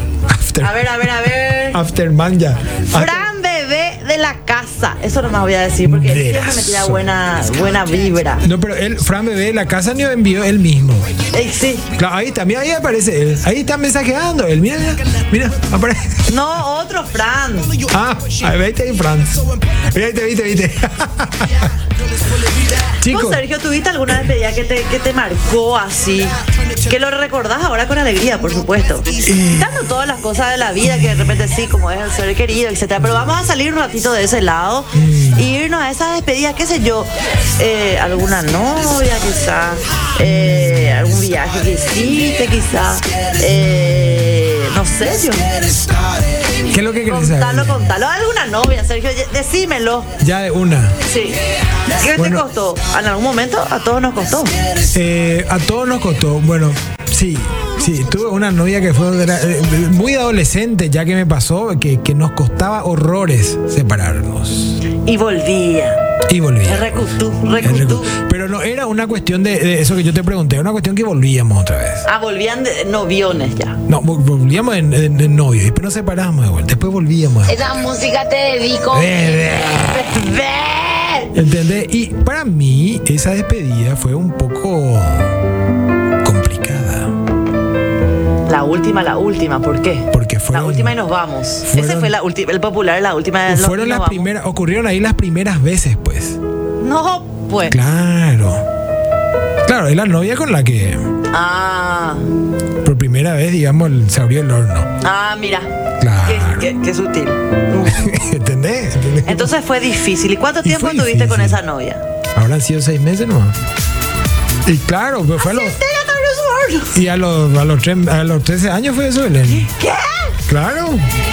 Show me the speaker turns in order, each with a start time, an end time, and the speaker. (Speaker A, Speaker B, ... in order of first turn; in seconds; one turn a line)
Speaker A: 0.3-0.9
Speaker B: 0.6-1.8
Speaker A: 1.7-3.3
Speaker B: 2.9-8.4
Speaker A: 5.8-7.1
Speaker A: 8.4-11.1
Speaker B: 11.3-11.9
Speaker A: 11.9-16.2
Speaker B: 16.3-17.8
Speaker A: 17.9-21.8
Speaker A: 23.0-23.4
Speaker B: 23.1-45.8
Speaker A: 29.2-29.8
Speaker A: 30.9-31.3
Speaker A: 34.9-35.4
Speaker A: 40.2-41.2
Speaker A: 46.6-47.9
Speaker B: 47.0-50.1
Speaker A: 50.2-51.0
Speaker B: 51.1-51.4
Speaker B: 51.9-54.6
Speaker A: 52.1-52.4
Speaker A: 54.9-64.8
Speaker B: 65.0-66.0
Speaker A: 66.3-72.1
Speaker B: 66.7-68.1
Speaker B: 72.1-73.8
Speaker A: 73.9-77.6
Speaker C: 77.5-79.4
Speaker A: 78.9-80.1
Speaker B: 79.8-81.3
Speaker A: 81.3-85.4
Speaker A: 86.2-87.1
Speaker B: 88.5-94.3
Speaker A: 90.1-91.0
Speaker A: 91.7-92.1
Speaker A: 93.5-96.4
Speaker B: 96.8-97.8
Speaker A: 97.7-98.6
Speaker A: 99.6-101.0
Speaker B: 101.3-102.2
Speaker A: 102.8-105.0
Speaker B: 105.0-105.7
Speaker A: 106.0-106.7
Speaker B: 106.2-108.1
Speaker A: 107.8-109.5
Speaker B: 109.2-112.0
Speaker A: 110.6-111.6
Speaker A: 112.3-113.6
Speaker A: 114.6-115.8
Speaker B: 115.4-117.0
Speaker A: 116.9-119.7
Speaker B: 119.5-120.4
Speaker A: 120.5-121.0